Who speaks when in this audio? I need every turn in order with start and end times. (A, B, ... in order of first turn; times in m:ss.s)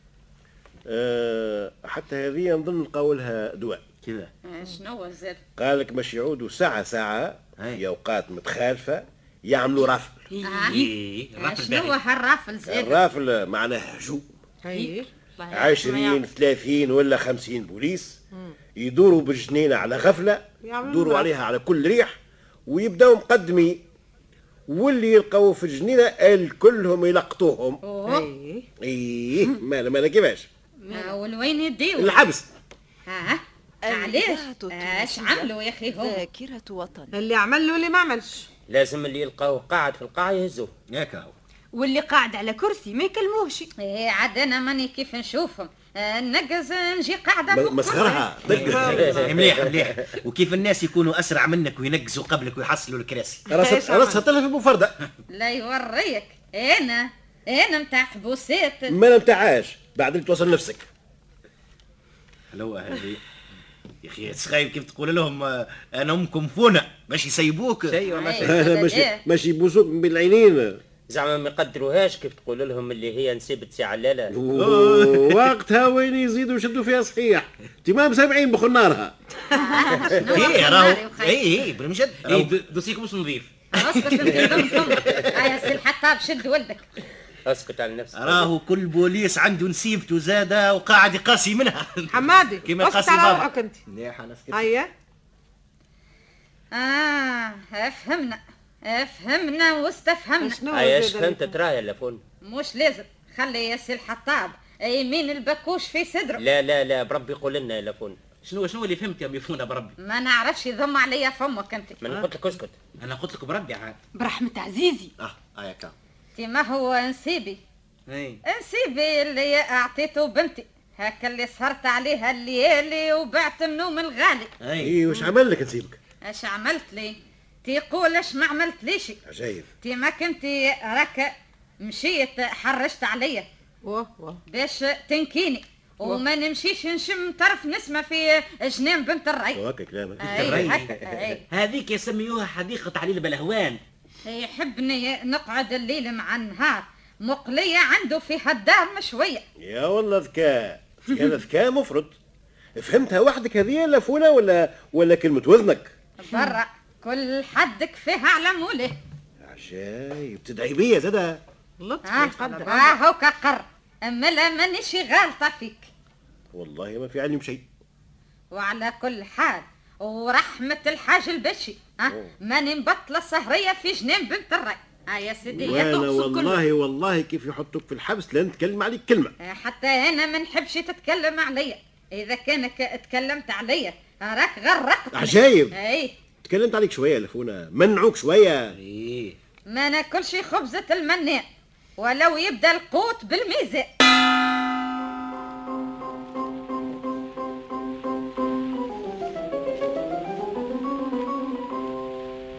0:00.9-0:03.8 A
0:04.0-0:04.3 B
0:04.4-0:05.4 C
0:05.6-0:10.2 A
0:10.4-0:13.0 C
0:10.7-0:12.0 D
0:12.6-0:14.2 A
0:14.6-0:15.1 E
0:14.7-0:16.2 F
0:15.5-0:18.2 A
0:18.8-0:22.1 A
0:20.6-0:21.3 E
0:22.7-0:23.8 A
0:24.7-0:27.8 A
0:27.8-0:28.3 C
0:28.0-0:28.7 E
0:28.8-0:30.5 A
0:30.8-0:31.1 F
0:30.9-0:32.2 C
0:32.0-0:32.5 A
0:33.1-0:36.2 C
0:33.8-0:37.1 G
0:37.1-0:38.5 E
0:38.7-0:40.7 H
0:40.9-0:41.3 B
0:41.7-0:43.7 F
0:43.8-0:48.3 C
0:47.5-0:49.3 A
0:48.1-0:49.3 E
0:48.5-0:48.8 D
0:48.5-0:53.5 B
0:48.8-0:49.8 H
0:53.5-0:54.2 E
0:53.5-0:55.0 A
0:55.3-0:59.0 C
0:58.9-1:00.9 A
1:02.5-1:03.2 B
1:04.0-1:08.0 B
1:07.9-1:08.5 D
1:08.1-1:09.2 C
1:08.4-1:10.8 A
1:11.1-1:14.4 H
1:14.3-1:19.1 A
1:14.6-1:15.5 B
1:19.5-1:21.4 C
1:20.2-1:22.6 B
1:20.4-1:20.7 D
1:22.2-1:23.6 D
1:23.7-1:26.9 C
1:23.8-1:25.7 B
1:24.3-1:25.0 D
1:27.4-1:28.5 H
1:28.1-1:34.7 B
1:32.1-1:33.8 E
1:34.5-1:34.9 E
1:36.7-1:40.6 C
1:40.4-1:41.5 E
1:40.7-1:42.2 H
1:42.4-1:46.4 C
1:46.4-1:48.2 H
1:48.4-1:49.9 D
1:50.0-1:52.0 C
1:52.0-1:52.8 H
1:53.0-1:54.0 D
1:54.1-1:55.1 F
1:55.2-1:55.9 B
1:56.3-1:57.6 C
1:58.1-1:58.4 D
1:58.4-2:04.5 C
2:04.6-2:04.9 B
2:04.8-2:06.0 A
2:06.2-2:09.2 C
2:09.2-2:09.7 A
2:09.8-2:13.5 C
2:13.8-2:14.4 E
2:14.5-2:19.6 C
2:19.5-2:20.7 A
2:20.2-2:21.4 C
2:20.2-2:20.9 D
2:20.4-2:20.8 B
2:21.5-2:23.8 D
2:24.2-2:29.4 C
2:29.6-2:32.1 A
2:32.8-2:35.9 A
2:36.2-2:39.0 C
2:39.4-2:41.4 A
2:41.8-2:42.9 E
2:42.0-2:45.9 C
2:46.5-2:47.6 A
2:48.5-2:55.9 C
2:55.5-2:59.3 A
2:55.7-2:56.6 F
2:59.4-3:06.1 C
3:05.1-3:05.8 A
3:06.4-3:08.8 A
3:08.7-3:09.4 D
3:09.7-3:11.4 C
3:12.0-3:13.9 C